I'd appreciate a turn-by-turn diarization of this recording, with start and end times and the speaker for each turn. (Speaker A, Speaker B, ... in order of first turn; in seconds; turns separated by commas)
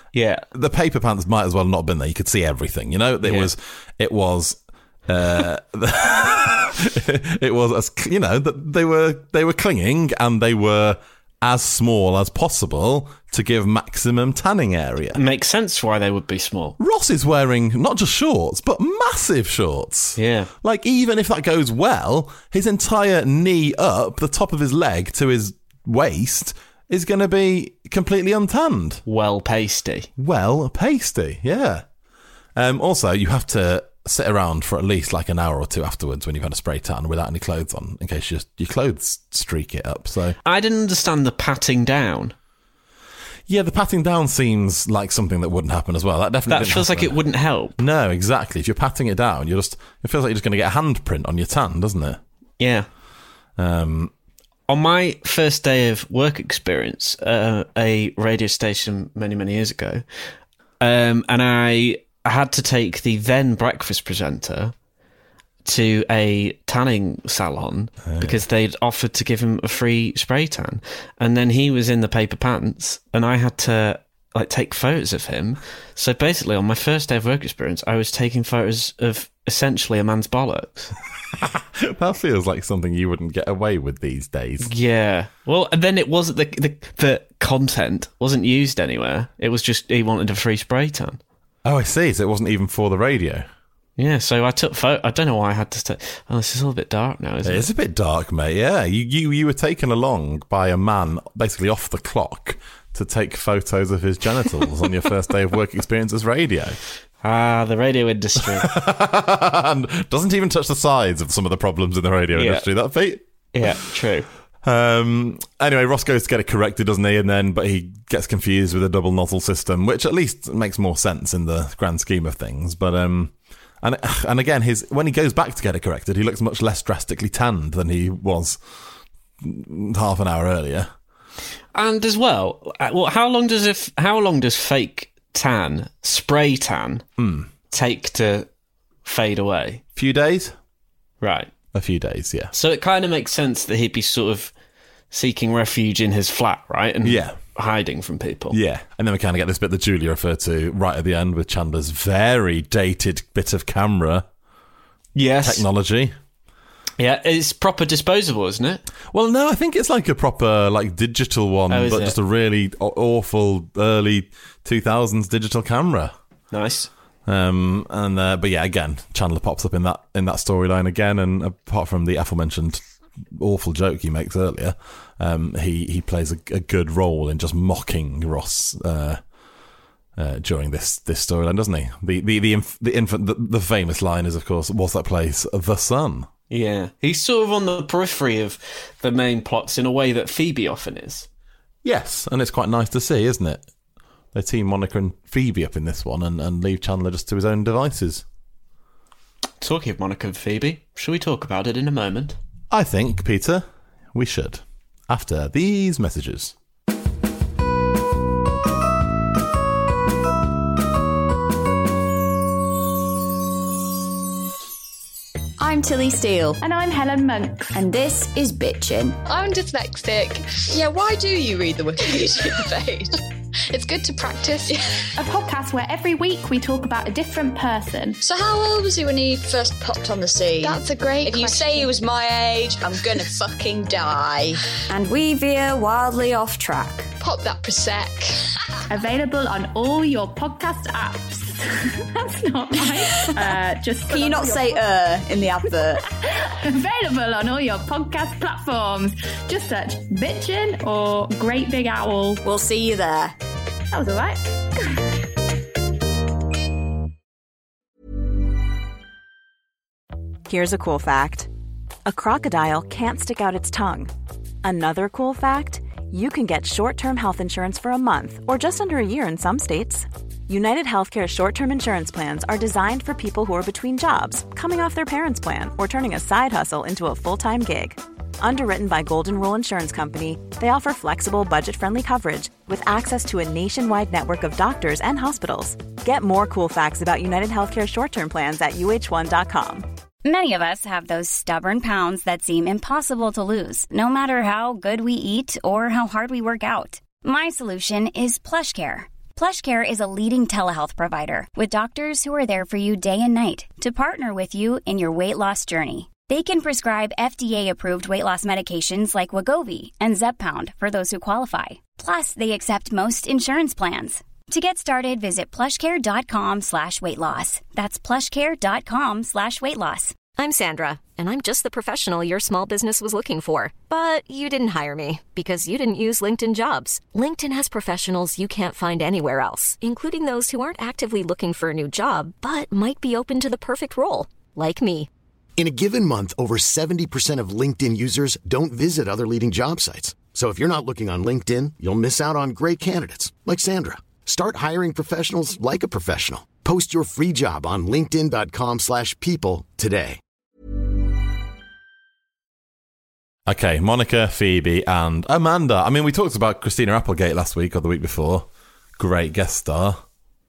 Speaker A: 0.1-0.4, Speaker B: 0.5-15.2, Speaker A: 3.2-3.5, Speaker A: 15.2-16.8, Speaker B: 16.8-29.0, Speaker A: 20.2-20.5, Speaker A: 29.1-30.1, Speaker B: 30.2-31.9, Speaker B: 32.6-40.4, Speaker A: 40.4-42.3, Speaker B: 43.5-47.1, Speaker A: 46.5-47.7, Speaker B: 47.8-52.2, Speaker A: 52.6-52.9, Speaker B: 53.6-54.1, Speaker A: 54.7-64.7, Speaker A: 65.6-81.0, Speaker B: 68.0-68.4, Speaker B: 81.4-84.7, Speaker A: 84.6-91.2, Speaker B: 91.6-93.5, Speaker A: 94.0-97.7, Speaker B: 97.4-106.8, Speaker A: 107.2-108.7, Speaker B: 108.4-113.7, Speaker A: 112.3-112.6, Speaker A: 113.5-114.3, Speaker B: 114.6-128.6, Speaker B: 129.4-130.9, Speaker A: 131.7-137.1, Speaker B: 137.2-137.5, Speaker A: 137.7-138.5, Speaker A: 139.1-139.8, Speaker B: 139.9-140.6, Speaker A: 141.2-141.5, Speaker B: 141.7-142.5, Speaker A: 142.5-144.5, Speaker A: 145.1-148.6, Speaker B: 147.0-147.4, Speaker B: 148.5-154.2, Speaker A: 155.1-155.6, Speaker B: 155.4-156.1, Speaker A: 157.0-158.8, Speaker B: 159.1-166.1, Speaker A: 161.7-162.2, Speaker A: 166.5-166.9, Speaker B: 167.2-179.2, Speaker B: 180.2-186.3, Speaker A: 186.5-191.3, Speaker B: 191.8-193.7, Speaker B: 194.3-198.2, Speaker A: 199.6-202.4, Speaker B: 202.7-206.5, Speaker C: 215.6-216.6, Speaker D: 216.6-217.8, Speaker C: 217.8-219.2, Speaker E: 219.2-223.1, Speaker E: 223.7-224.8, Speaker D: 225.2-228.2, Speaker E: 228.2-234.6, Speaker C: 230.6-231.9, Speaker C: 234.9-237.1, Speaker E: 237.2-238.3, Speaker D: 238.9-244.8, Speaker C: 244.1-246.0, Speaker D: 246.4-252.4, Speaker C: 252.4-253.3, Speaker D: 253.9-254.5, Speaker F: 260.5-261.5, Speaker F: 262.1-264.1, Speaker F: 264.6-289.9, Speaker G: 290.2-320.2, Speaker H: 320.4-335.1, Speaker I: 335.6-350.2, Speaker B: 353.4-360.0